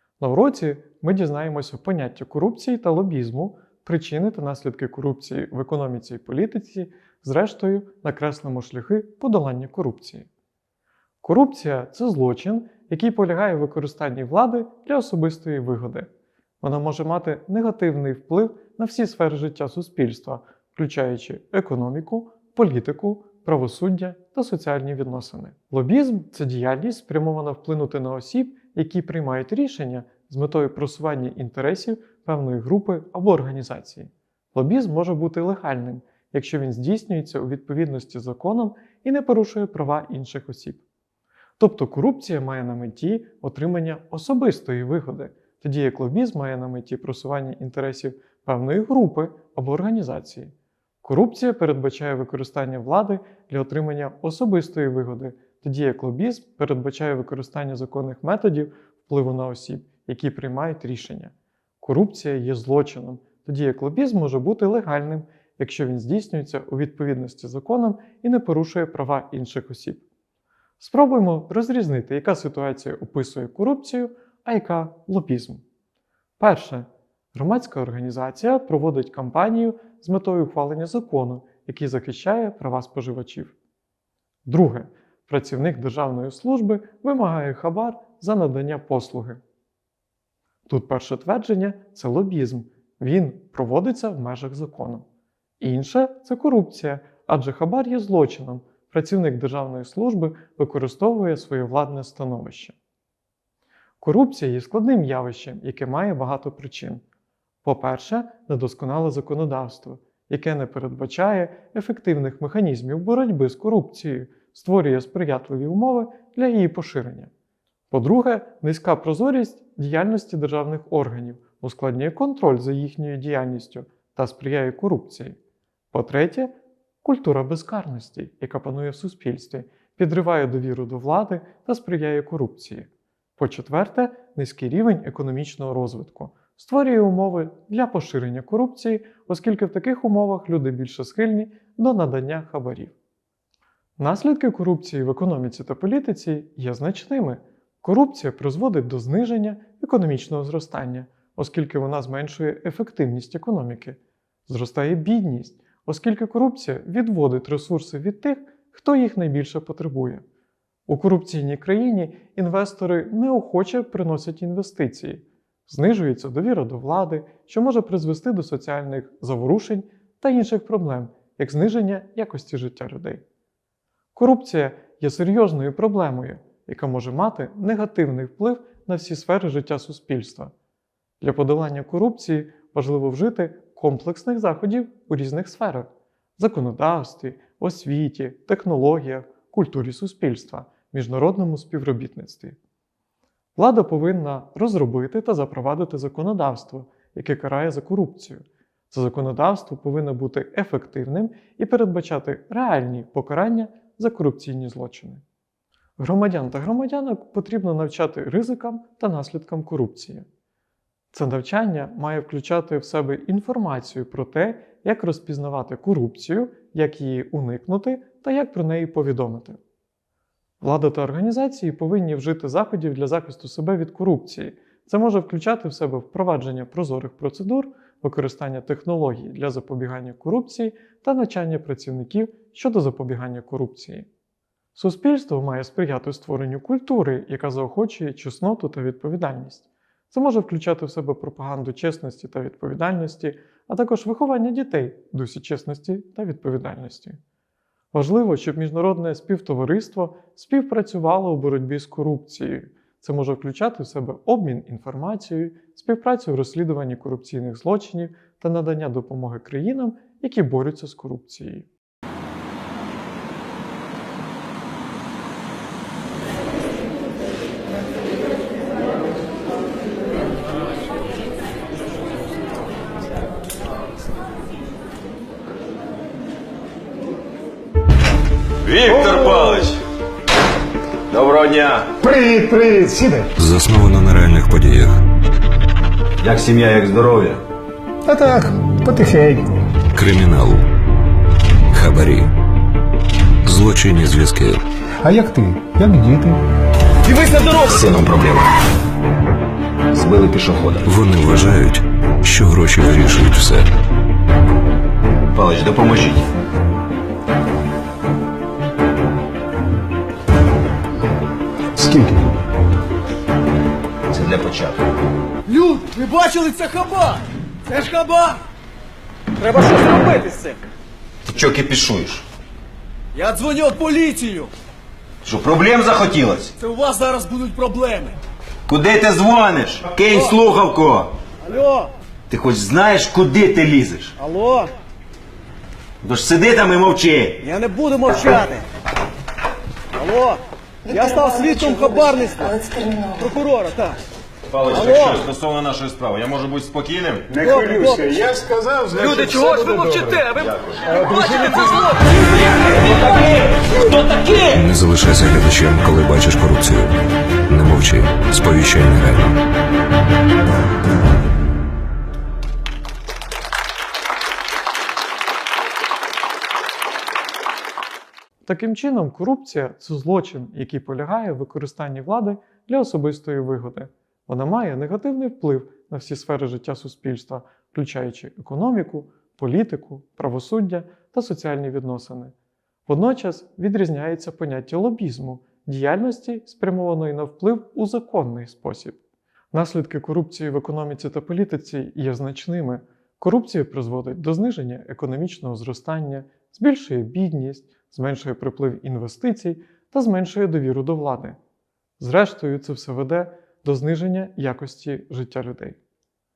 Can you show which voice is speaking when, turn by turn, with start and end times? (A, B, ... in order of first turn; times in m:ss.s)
0:00.2-0:10.3 A
0:11.2-0:16.1 A
0:16.6-0:40.8 A
0:41.6-1:10.0 A
1:10.8-1:15.6 A
1:16.4-1:23.6 A
1:24.4-1:29.4 A
1:30.7-1:35.0 A
1:35.6-1:42.7 A
1:44.0-1:47.0 A
1:47.6-1:57.3 A
1:57.9-2:05.4 A
2:05.9-2:23.0 A
2:24.0-2:40.2 A
2:40.9-2:53.2 A
2:54.2-3:00.5 A
3:01.2-3:12.6 A
3:13.6-3:25.2 A
3:26.0-3:30.2 A
3:31.1-3:39.6 A
3:40.6-3:54.1 A
3:54.8-4:07.2 A
4:07.9-4:21.7 A
4:38.6-4:39.8 B
4:41.1-4:42.0 B
4:42.1-4:43.2 C
4:43.4-4:45.0 D
4:46.2-4:47.4 B
4:48.4-4:49.7 C
4:49.9-4:50.6 D
4:51.7-4:52.3 D
4:53.4-4:54.6 D
4:57.1-4:57.7 E
4:57.7-4:58.5 B
4:59.9-5:00.9 B
5:00.8-5:03.7 D
5:05.3-5:06.3 B
5:14.1-5:14.8 B
5:15.5-5:18.4 E
5:19.4-5:20.6 E
5:21.2-5:22.2 B
5:23.2-5:24.5 E
5:25.2-5:26.5 B
5:26.6-5:28.2 E
5:28.7-5:31.1 B
5:31.4-5:31.9 E
5:32.3-5:34.1 B
5:34.2-5:34.7 E
5:36.0-5:37.4 B
5:37.4-5:38.6 E
5:39.9-5:44.0 E
5:44.5-5:47.3 B
5:44.8-5:45.1 E
5:47.3-5:48.3 E
5:48.4-5:48.9 C
5:49.0-5:52.5 E
5:49.0-5:49.3 B
5:50.1-5:51.4 B
5:54.1-5:54.4 B
5:54.5-5:56.9 D
5:57.5-5:59.3 D
6:08.4-6:22.3 A
6:22.9-6:29.0 A
6:29.5-6:41.4 A
6:42.0-6:45.8 A